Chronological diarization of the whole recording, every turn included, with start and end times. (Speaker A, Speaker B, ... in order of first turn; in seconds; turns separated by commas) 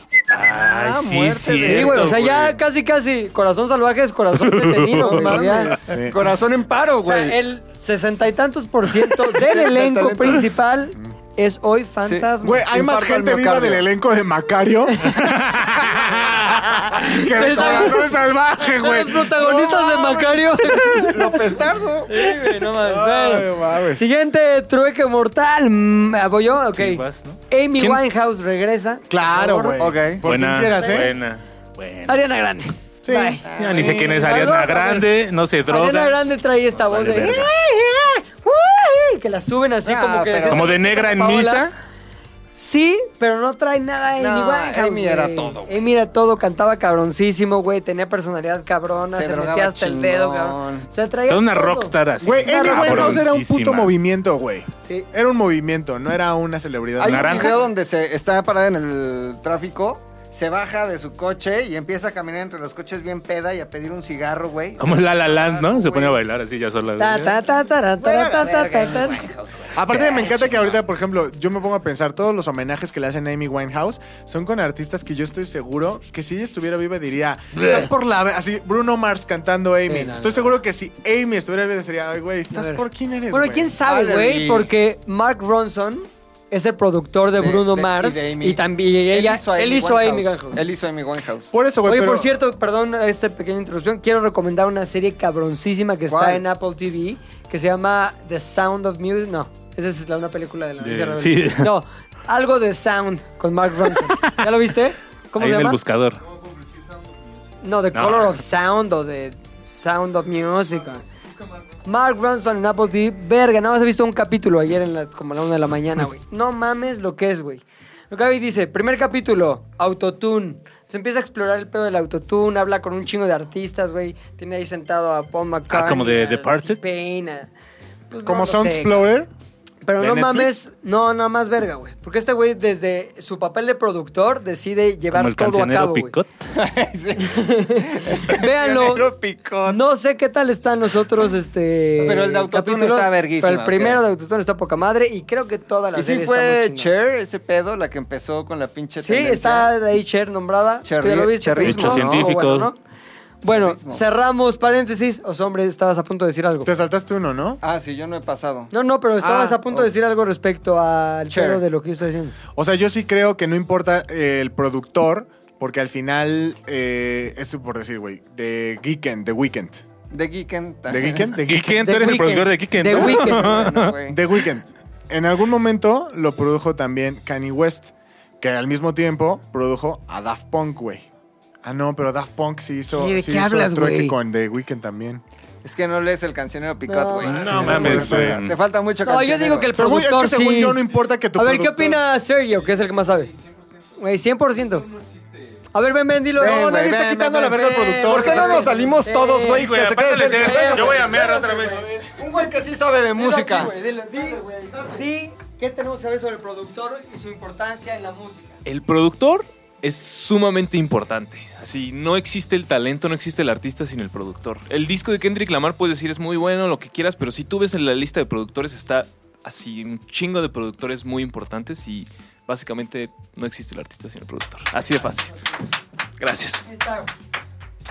Speaker A: 0.3-2.3, Speaker B: 0.5-2.6, Speaker C: 1.6-5.8, Speaker A: 4.3-5.3, Speaker B: 5.0-7.4, Speaker D: 5.3-6.2, Speaker C: 7.0-12.8, Speaker B: 9.3-10.5, Speaker B: 12.0-13.9, Speaker D: 12.4-21.1, Speaker C: 14.9-15.2, Speaker A: 15.2-16.2, Speaker B: 16.9-18.0, Speaker C: 17.0-18.0, Speaker C: 18.6-21.4, Speaker B: 21.0-22.3, Speaker C: 22.1-29.8, Speaker D: 22.6-24.0, Speaker A: 26.7-28.0, Speaker D: 29.1-31.1, Speaker B: 29.8-30.2, Speaker A: 30.2-32.2, Speaker C: 30.8-31.0, Speaker C: 32.1-35.1, Speaker D: 33.0-34.0, Speaker B: 33.4-34.6, Speaker A: 33.6-36.2, Speaker C: 35.7-41.6, Speaker A: 36.8-37.5, Speaker B: 39.8-40.7, Speaker A: 40.5-41.7, Speaker C: 42.5-53.3, Speaker B: 44.2-45.8, Speaker B: 49.1-50.9, Speaker A: 51.3-53.9, Speaker D: 52.2-57.5, Speaker B: 57.0-66.2, Speaker A: 57.0-57.6, Speaker A: 64.8-67.4, Speaker C: 67.0-69.3, Speaker B: 68.0-70.5, Speaker D: 69.7-83.7, Speaker C: 77.5-77.9, Speaker C: 79.9-80.4, Speaker C: 82.5-90.6, Speaker B: 83.8-84.7, Speaker B: 87.4-91.5, Speaker D: 91.5-92.3, Speaker C: 91.8-105.8, Speaker B: 96.1-96.4, Speaker A: 100.8-101.7, Speaker A: 103.9-104.4, Speaker A: 105.4-106.2, Speaker C: 107.6-111.0, Speaker A: 107.9-108.3, Speaker C: 111.8-127.5, Speaker A: 125.7-126.8, Speaker C: 128.1-129.1, Speaker D: 128.2-129.3, Speaker C: 129.8-136.1, Speaker A: 130.0-130.5, Speaker A: 135.1-136.5, Speaker B: 136.5-139.8, Speaker C: 137.2-139.1, Speaker C: 139.6-146.9, Speaker B: 142.0-144.0, Speaker B: 145.9-149.7, Speaker C: 149.0-152.8, Speaker B: 150.8-152.3, Speaker A: 151.6-152.7, Speaker C: 153.4-156.7, Speaker B: 153.4-154.0, Speaker D: 156.6-157.6, Speaker B: 157.6-158.7, Speaker C: 158.7-162.4, Speaker D: 159.2-159.6, Speaker B: 161.3-161.6, Speaker D: 162.6-169.8, Speaker B: 170.1-171.4, Speaker D: 170.9-172.2, Speaker A: 171.4-174.0, Speaker C: 171.8-173.7, Speaker B: 172.9-174.2, Speaker D: 174.1-181.1, Speaker D: 181.6-185.2, Speaker C: 182.9-184.2, Speaker B: 185.6-189.7, Speaker C: 186.9-188.1, Speaker A: 187.2-188.6, Speaker D: 187.4-188.4, Speaker C: 189.0-190.8, Speaker D: 189.7-192.0, Speaker C: 191.3-193.3, Speaker C: 194.0-194.9, Speaker C: 195.7-201.1, Speaker B: 196.4-205.0, Speaker D: 196.4-198.8, Speaker A: 199.5-202.0, Speaker C: 203.2-208.5, Speaker E: 208.6-225.4, Speaker E: 226.2-226.7, Speaker C: 226.7-227.1